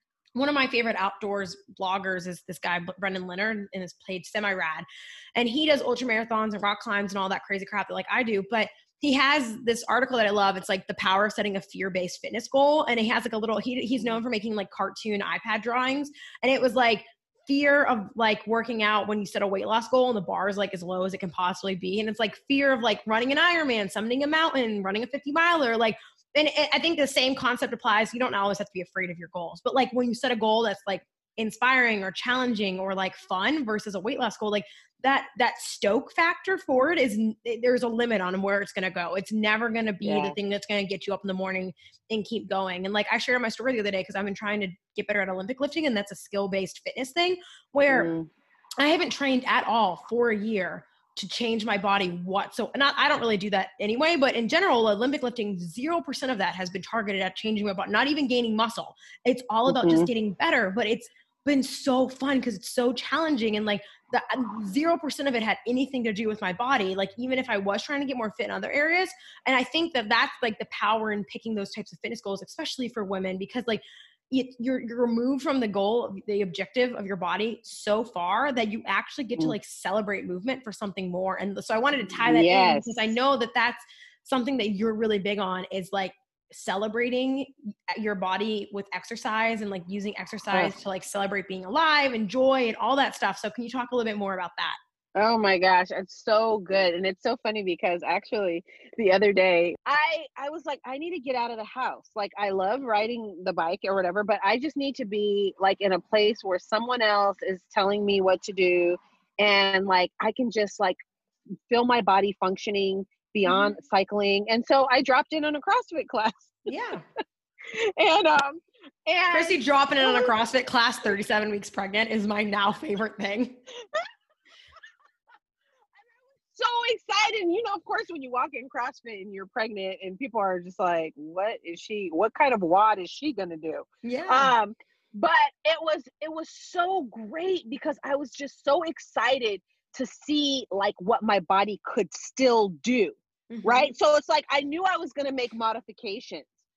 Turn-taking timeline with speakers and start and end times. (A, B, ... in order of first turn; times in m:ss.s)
0:00.4-0:48.1 A
0:40.0-0:40.4 B
0:47.9-0:48.3 B
0:48.8-1:34.8 A
0:59.7-1:00.1 B
1:22.0-1:22.9 B
1:35.2-1:51.0 B
1:51.7-1:56.7 B
1:53.5-1:53.8 A
1:56.7-1:57.0 A
1:57.7-2:00.3 B
1:59.3-2:03.6 A
2:06.5-2:26.5 B
2:14.0-2:14.5 A
2:23.5-2:23.9 A